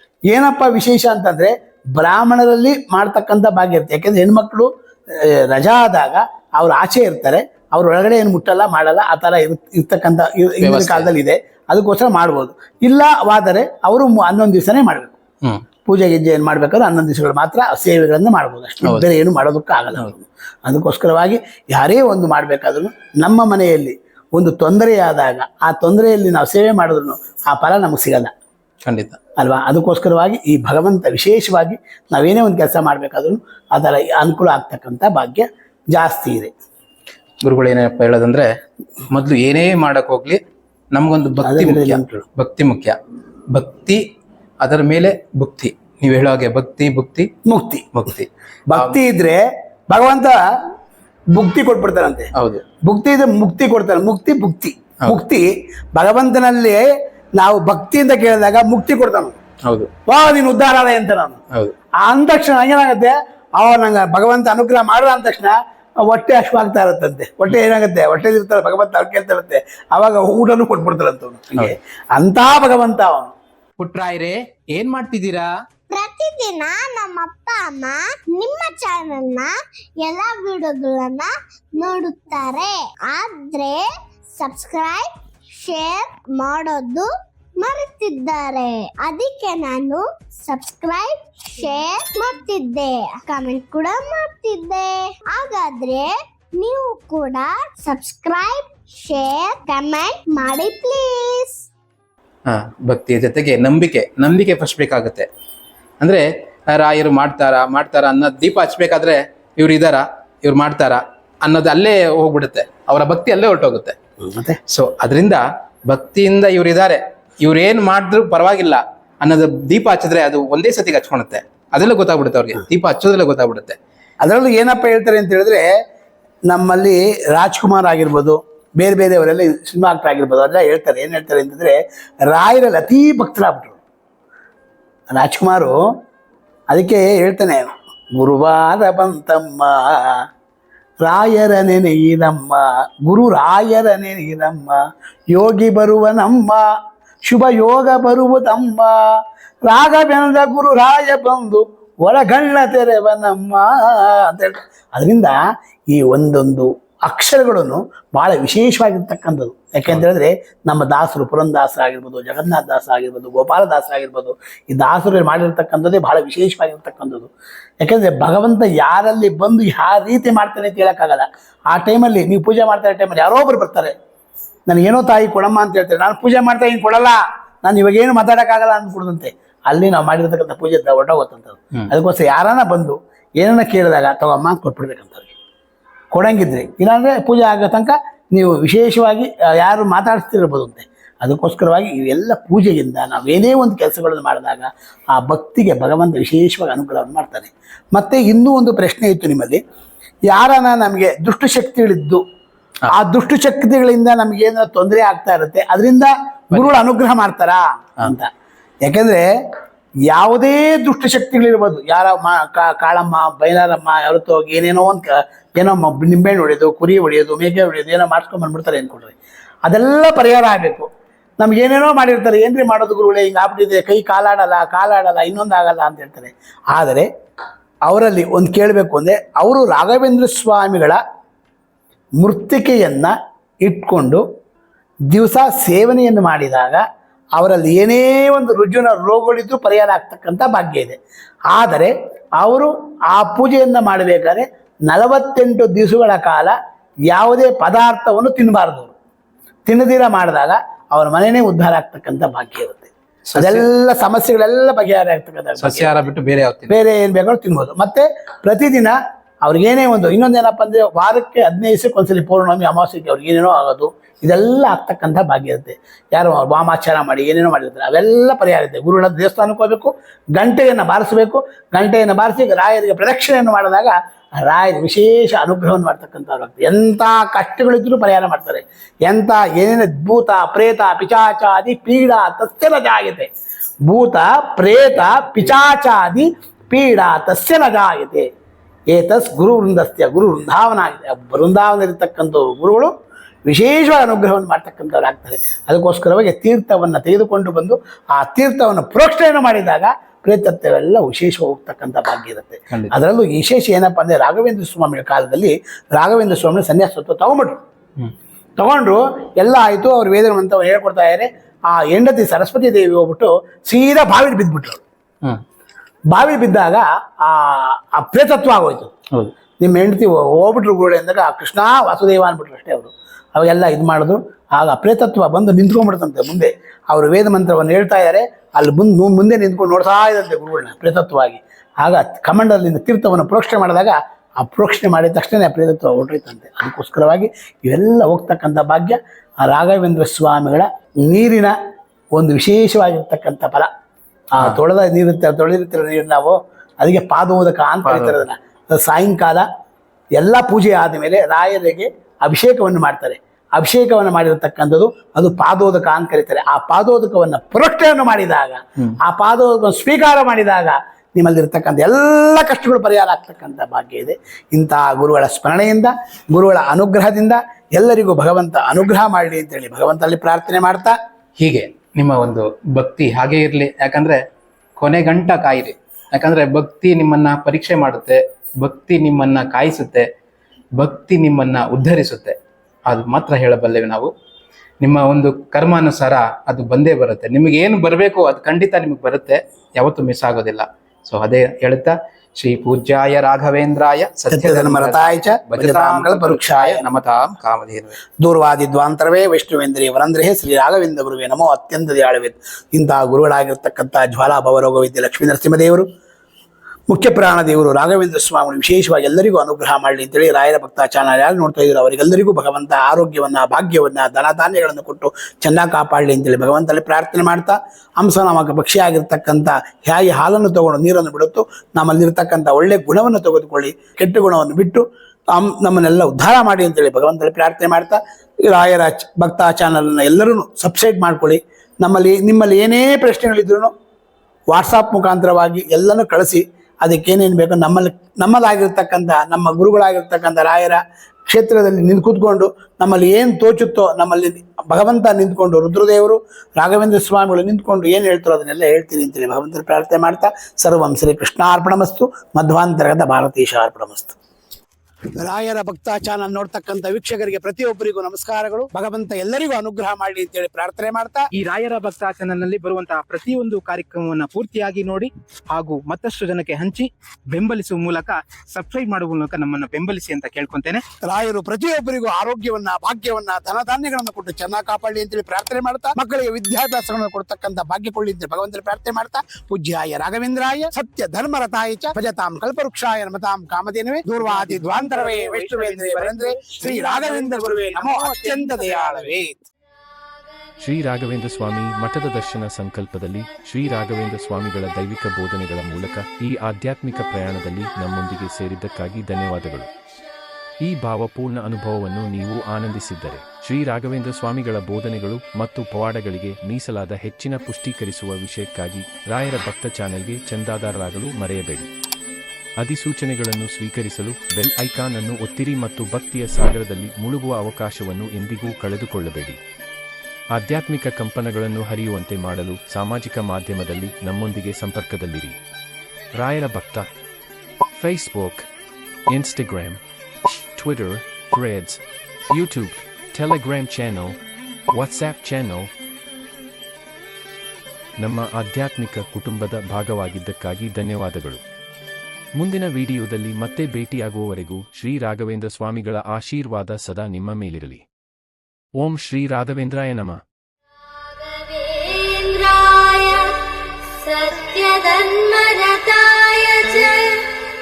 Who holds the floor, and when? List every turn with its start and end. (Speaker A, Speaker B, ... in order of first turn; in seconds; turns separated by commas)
Speaker A: 0.3-15.2, Speaker B: 10.6-11.1, Speaker A: 15.8-28.3, Speaker B: 28.9-29.2, Speaker A: 29.4-36.5, Speaker B: 37.4-38.5, Speaker B: 39.1-40.4, Speaker B: 40.9-43.0, Speaker A: 41.4-42.2, Speaker B: 43.5-44.0, Speaker B: 44.6-47.3, Speaker A: 47.5-47.9, Speaker B: 47.9-49.0, Speaker A: 48.7-50.4, Speaker A: 51.3-52.3, Speaker B: 52.4-52.6, Speaker A: 52.8-56.8, Speaker A: 57.4-59.4, Speaker A: 60.1-61.4, Speaker A: 62.0-65.5, Speaker A: 66.0-73.3, Speaker B: 73.8-75.5, Speaker C: 75.9-83.8, Speaker C: 84.4-87.1, Speaker C: 87.6-101.6, Speaker B: 102.5-105.3, Speaker B: 106.0-114.0, Speaker A: 114.2-114.6, Speaker B: 114.7-123.8, Speaker A: 124.2-125.6, Speaker A: 126.5-133.8, Speaker A: 135.1-135.8, Speaker A: 136.7-140.2, Speaker A: 141.0-144.8, Speaker A: 145.3-146.6, Speaker A: 147.2-149.1, Speaker A: 149.7-155.3, Speaker A: 155.9-167.3, Speaker A: 167.8-173.9, Speaker A: 174.7-185.3, Speaker A: 186.1-199.6, Speaker A: 200.3-202.2, Speaker A: 202.9-208.3, Speaker B: 206.5-206.8, Speaker A: 208.8-209.2, Speaker A: 210.1-219.1, Speaker A: 219.7-220.9, Speaker A: 221.4-227.1, Speaker A: 227.9-231.0, Speaker A: 232.2-234.2, Speaker A: 235.1-236.8, Speaker A: 237.3-241.0, Speaker A: 241.5-246.5, Speaker A: 247.1-248.9, Speaker A: 249.7-255.9, Speaker B: 253.3-253.7, Speaker B: 255.6-256.8, Speaker A: 256.7-273.9, Speaker A: 274.4-283.3, Speaker A: 283.9-288.2, Speaker A: 288.9-292.9, Speaker A: 293.5-307.6, Speaker A: 308.6-314.8, Speaker A: 316.1-318.9, Speaker A: 319.6-341.5, Speaker A: 342.1-343.7, Speaker A: 344.3-349.4, Speaker B: 347.9-348.2, Speaker A: 350.2-370.9, Speaker B: 371.4-374.2, Speaker B: 374.8-380.0, Speaker B: 380.8-382.3, Speaker B: 382.9-384.1, Speaker B: 384.8-398.0, Speaker A: 394.3-396.8, Speaker A: 398.2-405.9, Speaker A: 406.9-433.7, Speaker A: 434.5-454.2, Speaker A: 455.2-461.2, Speaker B: 461.4-470.8, Speaker A: 471.0-489.4, Speaker B: 484.2-489.2, Speaker D: 490.6-499.7, Speaker D: 500.6-511.7, Speaker D: 512.6-519.4, Speaker D: 520.3-525.4, Speaker D: 526.1-526.9, Speaker D: 527.8-528.5, Speaker D: 529.1-529.8, Speaker D: 530.5-534.2, Speaker D: 534.7-535.7, Speaker D: 538.0-541.4, Speaker D: 542.4-547.8, Speaker D: 548.7-550.2, Speaker E: 551.4-553.0, Speaker E: 554.0-557.2